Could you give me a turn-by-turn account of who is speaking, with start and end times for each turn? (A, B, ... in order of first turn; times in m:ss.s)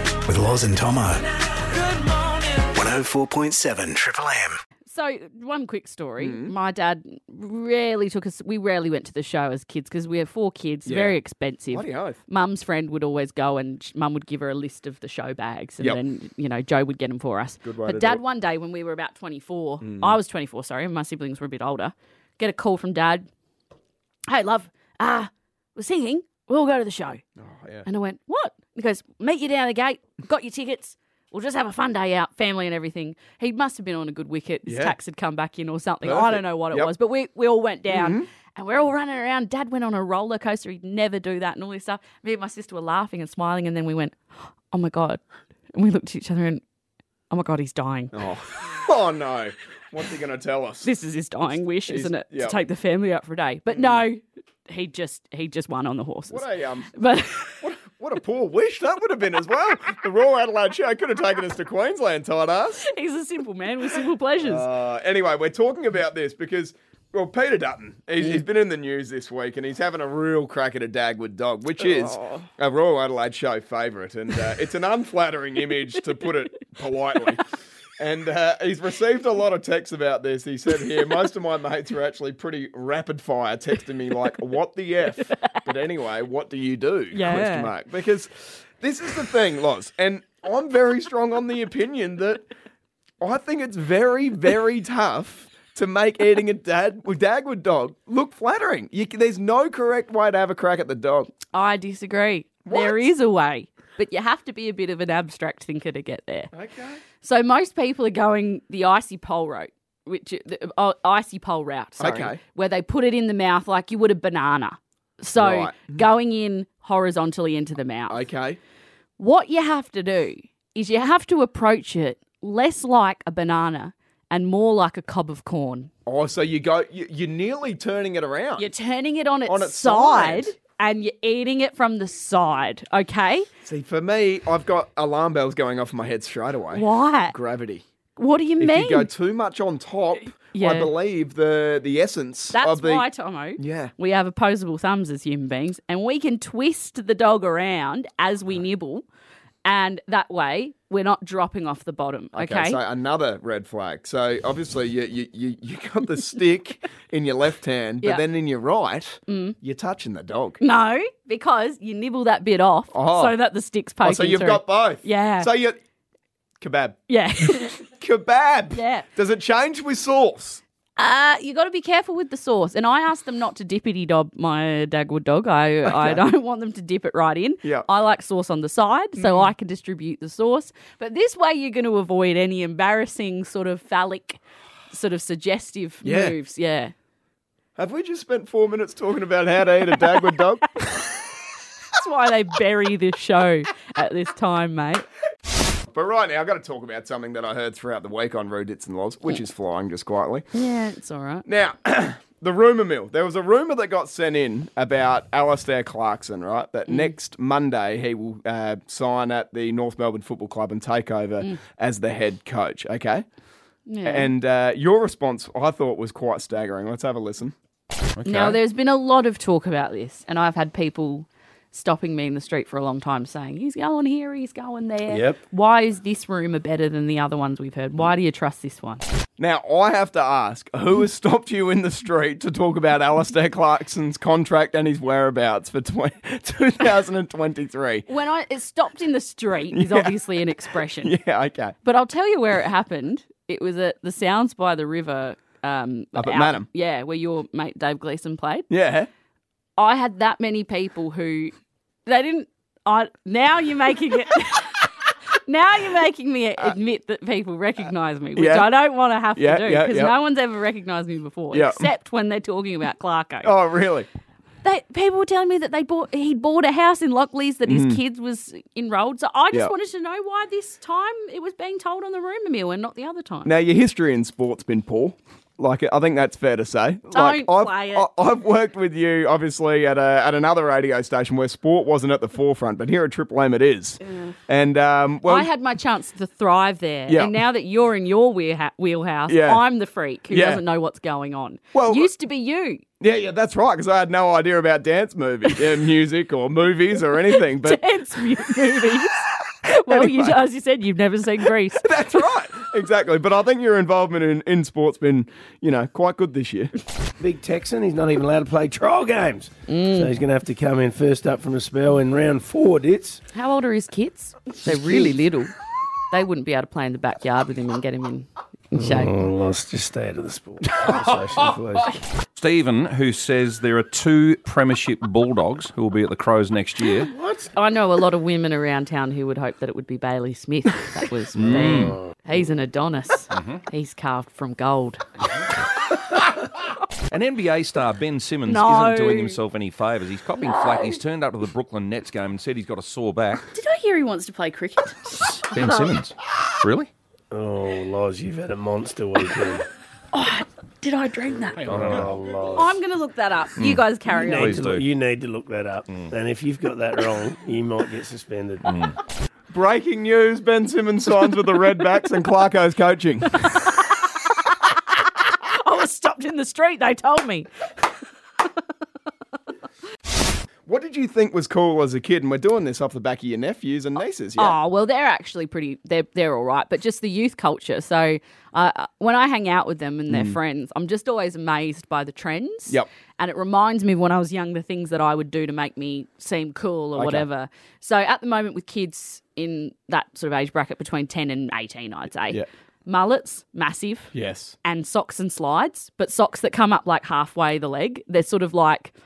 0:00.1-0:01.8 A
0:02.5-0:04.6 A
0:04.9-0:23.3 B
0:06.2-0:06.5 C
0:10.8-0:11.2 C
0:11.7-0:12.2 C
0:17.6-0:18.2 C
0:19.8-0:20.2 C
0:24.3-0:27.2 B
0:27.4-0:27.8 C
0:27.8-0:44.2 B
0:34.6-0:34.9 C
0:36.0-0:36.9 C
0:37.9-0:38.3 C
0:44.7-0:45.2 B
0:45.7-0:46.6 B
0:47.3-0:48.1 B
0:48.1-0:50.9 C
0:50.8-0:57.6 B
0:51.9-0:52.6 C
0:53.7-0:54.0 C
0:56.3-0:56.9 C
0:57.6-1:02.8 C
1:02.8-1:04.7 B
1:04.4-1:17.5 C
1:11.8-1:12.5 B
1:18.0-1:32.5 C
1:27.1-1:27.7 B
1:33.2-1:41.3 C
1:41.5-1:46.5 B
1:42.6-1:43.0 C
1:46.5-1:47.0 C
1:47.2-1:58.2 B
1:52.0-1:52.4 C
1:55.4-1:56.0 C
1:58.1-1:58.6 C
1:59.2-2:05.9 B
2:06.0-2:08.7 C
2:08.6-2:13.5 B
2:09.4-2:10.5 C
2:13.6-2:17.8 C
2:16.7-2:17.4 B
2:18.2-2:19.1 B
2:18.6-2:23.1 C
2:20.5-2:20.9 B
2:22.5-2:29.0 B
2:23.6-2:23.9 C
2:29.6-2:32.8 B
2:32.3-2:40.6 C
2:39.3-2:39.6 B
2:40.6-2:45.5 B
2:42.9-2:43.3 C
2:44.0-2:45.8 C
2:46.6-2:47.0 C
2:47.1-2:47.8 B
2:47.8-2:50.6 C
2:48.7-2:49.1 B
2:51.0-3:06.9 B
2:55.8-2:56.2 C
2:59.2-2:59.5 C
3:06.0-3:06.4 C
3:07.8-3:10.8 C
3:11.9-3:15.0 B
3:15.9-3:20.5 C
3:20.5-3:21.4 B
3:21.4-3:33.2 C
3:26.9-3:27.1 B
3:33.9-3:34.3 B
3:34.0-3:37.5 C
3:38.2-3:38.6 D
3:38.2-3:49.0 B
3:45.1-3:45.4 E
3:49.4-3:58.0 C
3:58.1-4:01.1 B
3:59.7-4:00.2 C
4:00.7-4:01.8 C
4:01.8-4:08.7 B
4:06.1-4:06.7 C
4:08.7-4:09.1 C
4:09.8-4:11.5 B
4:12.0-4:23.5 B
4:18.4-4:18.7 C
4:19.3-4:20.1 C
4:21.5-4:21.9 C
4:23.4-4:24.1 C
4:24.6-4:33.5 B
4:27.6-4:28.0 C
4:33.4-4:45.5 C
4:37.1-4:38.1 B
4:44.0-4:44.3 B
4:45.2-4:52.8 B
4:47.1-4:47.4 C
4:49.3-4:49.6 C
4:50.3-4:50.6 C
4:51.7-4:52.1 C
4:53.0-4:57.8 C
4:57.3-5:01.9 B
4:58.5-4:59.0 C
4:59.7-5:00.4 C
5:01.7-5:06.7 C
5:07.2-5:13.2 E
5:09.7-5:10.1 B
5:13.3-5:15.5 B
5:16.1-5:19.2 B
5:18.7-5:22.0 E
5:22.4-5:27.1 D
5:27.1-5:27.5 E
5:27.5-5:35.0 B
5:31.3-5:32.0 D
5:31.5-5:32.0 E
5:33.3-5:33.6 D
5:37.1-5:43.5 D
5:38.5-5:39.4 B
5:40.4-5:41.0 B
5:43.5-5:45.9 B
5:45.4-5:46.9 D
5:47.3-5:49.6 E
5:50.1-5:54.7 B
5:51.6-5:52.7 E
5:51.6-5:52.0 D
5:53.6-5:54.8 D
5:54.1-5:58.7 E
5:58.6-5:58.9 D
5:59.5-6:03.5 C
6:03.4-6:04.0 B
6:05.2-6:07.6 B
6:10.6-6:14.6 C
6:14.4-6:34.1 B
6:20.1-6:20.4 C
6:26.9-6:27.2 C
6:34.1-6:34.5 C
6:34.6-6:38.9 B